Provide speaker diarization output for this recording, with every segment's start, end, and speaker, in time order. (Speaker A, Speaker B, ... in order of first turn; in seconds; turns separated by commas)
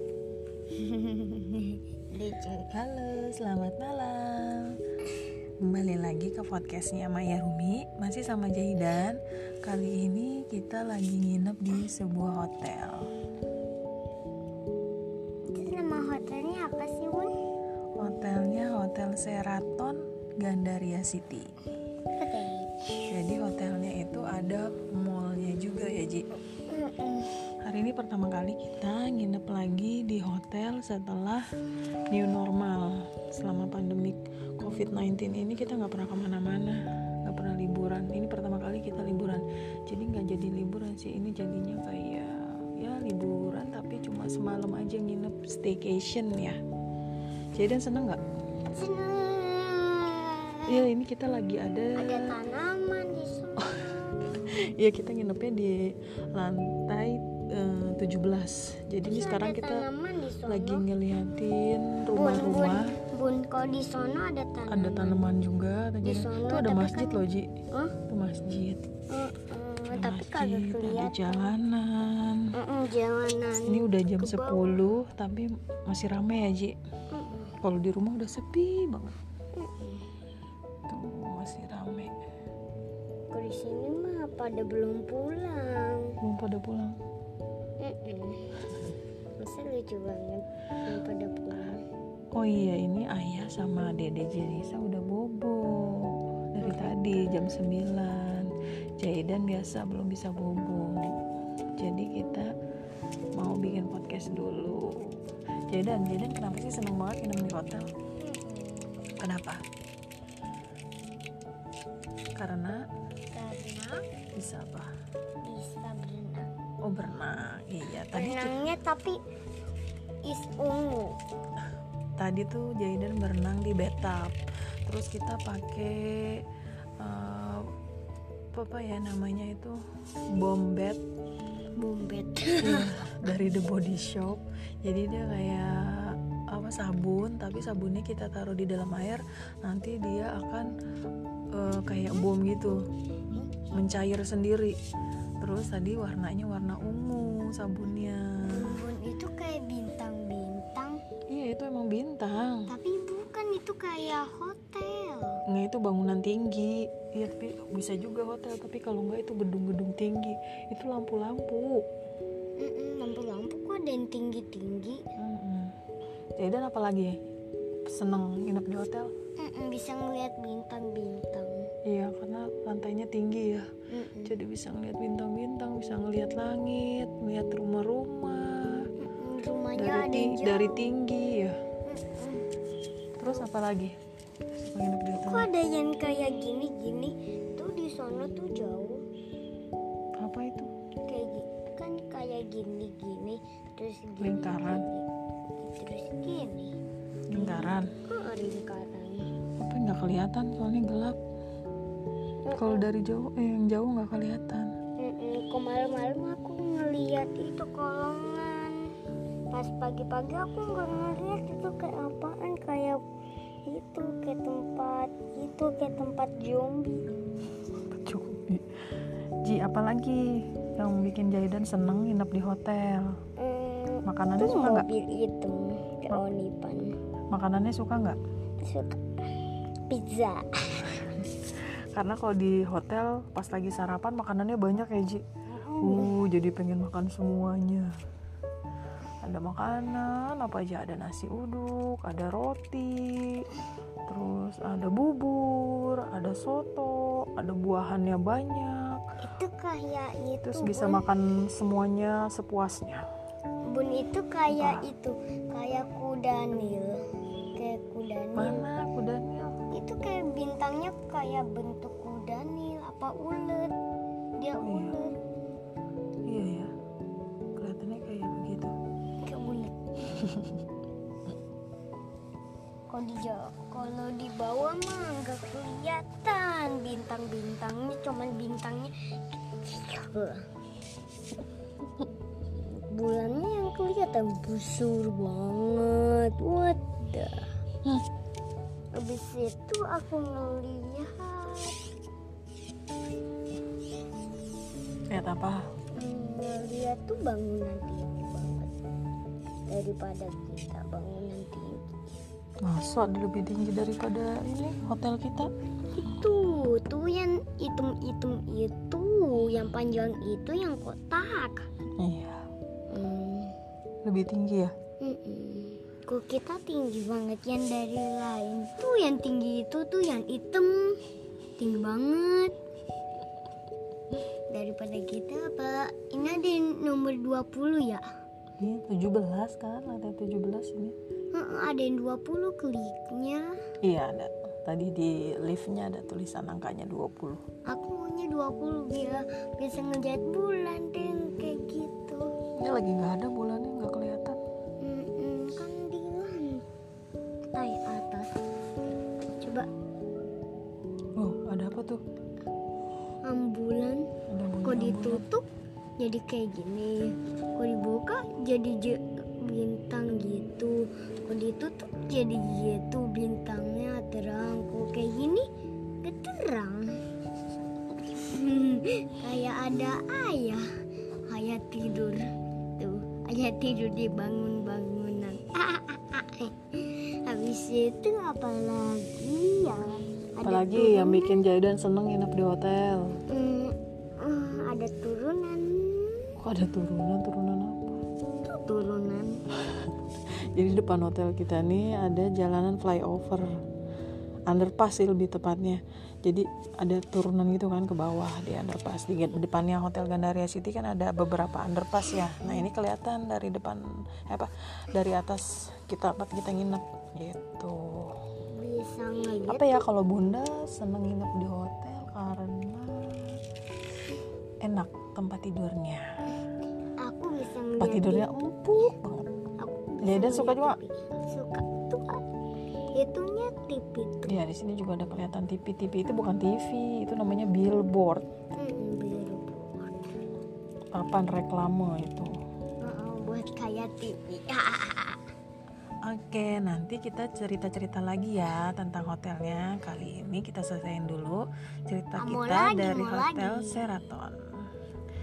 Speaker A: 0.7-2.7, Speaker B: 2.7-4.8, Speaker B: 5.6-13.1, Speaker A: 15.5-17.3, Speaker B: 18.0-21.5, Speaker A: 22.1-22.8, Speaker B: 23.1-26.2, Speaker A: 26.7-27.4, Speaker B: 27.6-31.4, Speaker B: 32.1-46.6, Speaker B: 47.5-48.2, Speaker A: 48.7-50.8, Speaker B: 50.7-52.2, Speaker A: 52.0-54.3, Speaker B: 53.7-59.9, Speaker A: 59.0-60.8, Speaker B: 60.5-63.0, Speaker A: 62.1-65.3, Speaker B: 64.7-67.5, Speaker A: 66.0-68.0, Speaker B: 68.1-68.8, Speaker A: 69.1-71.5, Speaker B: 69.9-72.5, Speaker A: 72.5-74.8, Speaker B: 73.7-76.8, Speaker A: 77.1-77.5, Speaker B: 77.6-79.2, Speaker A: 79.5-80.0, Speaker B: 80.9-82.2, Speaker A: 83.3-86.1, Speaker B: 86.2-87.0, Speaker A: 87.8-88.5, Speaker A: 89.4-91.8, Speaker B: 92.3-101.2, Speaker A: 96.6-97.3, Speaker B: 101.8-102.5, Speaker B: 103.3-105.2, Speaker B: 105.7-107.9, Speaker A: 108.2-109.2, Speaker B: 109.2-109.6, Speaker B: 112.3-112.8, Speaker A: 113.3-114.0, Speaker B: 114.3-114.9, Speaker A: 115.4-116.5, Speaker B: 116.8-118.6, Speaker A: 118.1-119.2, Speaker A: 120.2-121.2, Speaker B: 122.2-126.4, Speaker B: 127.0-127.6, Speaker B: 128.5-129.8, Speaker B: 130.3-131.0, Speaker A: 131.8-132.9, Speaker B: 132.6-140.7, Speaker B: 141.5-142.8, Speaker A: 143.3-143.8, Speaker B: 143.7-144.8, Speaker B: 145.4-148.8, Speaker A: 148.4-151.0, Speaker B: 151.3-152.7, Speaker A: 152.7-155.4, Speaker B: 155.5-161.8, Speaker A: 162.6-165.0, Speaker B: 165.2-165.7, Speaker B: 166.4-167.2, Speaker B: 167.9-169.1, Speaker A: 169.4-171.7, Speaker B: 171.8-173.7, Speaker A: 173.9-174.3, Speaker B: 174.2-178.9, Speaker A: 179.0-180.9, Speaker B: 179.8-181.5, Speaker A: 181.8-182.5, Speaker B: 183.2-183.9, Speaker B: 184.7-185.5, Speaker A: 185.2-189.0, Speaker B: 190.2-190.7, Speaker A: 191.1-195.1, Speaker B: 194.2-194.8, Speaker A: 195.6-196.8, Speaker B: 197.3-197.9, Speaker A: 197.3-199.3, Speaker B: 199.6-201.2, Speaker A: 202.4-202.9, Speaker B: 202.5-204.7, Speaker A: 205.0-208.9, Speaker A: 209.5-213.0, Speaker A: 213.7-217.1, Speaker B: 217.9-223.2, Speaker A: 223.4-226.9, Speaker B: 224.1-224.9, Speaker B: 227.3-228.2, Speaker A: 228.6-229.0, Speaker A: 229.9-231.0, Speaker B: 231.0-235.2, Speaker A: 235.6-236.1, Speaker B: 235.8-237.9, Speaker B: 239.2-243.5, Speaker B: 244.1-249.0, Speaker A: 249.2-251.1, Speaker B: 250.4-253.0, Speaker A: 253.7-257.0, Speaker B: 254.5-254.8, Speaker A: 257.5-258.7, Speaker B: 258.3-259.5, Speaker A: 259.7-263.7, Speaker A: 264.4-265.1, Speaker B: 264.6-265.0, Speaker B: 266.2-266.7, Speaker B: 267.6-268.7, Speaker A: 269.2-269.7, Speaker B: 270.1-270.6, Speaker A: 272.9-280.4, Speaker A: 282.5-287.5, Speaker A: 289.0-291.8, Speaker B: 295.1-295.6, Speaker A: 295.9-298.8, Speaker A: 299.7-301.9, Speaker B: 302.6-305.5, Speaker A: 305.9-311.7, Speaker B: 312.0-312.5, Speaker A: 312.9-313.5, Speaker B: 314.0-314.7, Speaker A: 315.0-321.0, Speaker A: 321.6-322.5, Speaker A: 324.5-328.0, Speaker B: 328.6-330.9, Speaker A: 331.3-333.6, Speaker B: 333.8-337.4, Speaker A: 337.7-342.3, Speaker B: 342.6-344.4, Speaker A: 344.8-346.6, Speaker A: 347.5-348.4, Speaker A: 349.4-349.7, Speaker B: 351.2-352.0, Speaker A: 353.2-354.0, Speaker B: 354.3-355.2, Speaker A: 354.6-355.5, Speaker A: 356.0-365.4, Speaker A: 366.0-366.9, Speaker A: 368.0-370.6, Speaker A: 371.3-381.4, Speaker B: 380.4-383.2, Speaker A: 383.3-386.3, Speaker B: 386.4-388.0, Speaker A: 388.4-389.4, Speaker B: 390.5-393.5, Speaker B: 394.5-408.1, Speaker A: 408.5-409.8, Speaker B: 409.5-413.4, Speaker B: 414.6-416.1, Speaker A: 417.0-418.3, Speaker B: 417.8-419.2, Speaker A: 419.6-422.2, Speaker B: 420.0-420.8, Speaker A: 422.9-424.4, Speaker B: 424.3-428.2, Speaker A: 428.6-429.9, Speaker B: 430.9-432.3, Speaker A: 432.8-435.2, Speaker B: 436.0-444.5, Speaker A: 442.2-443.8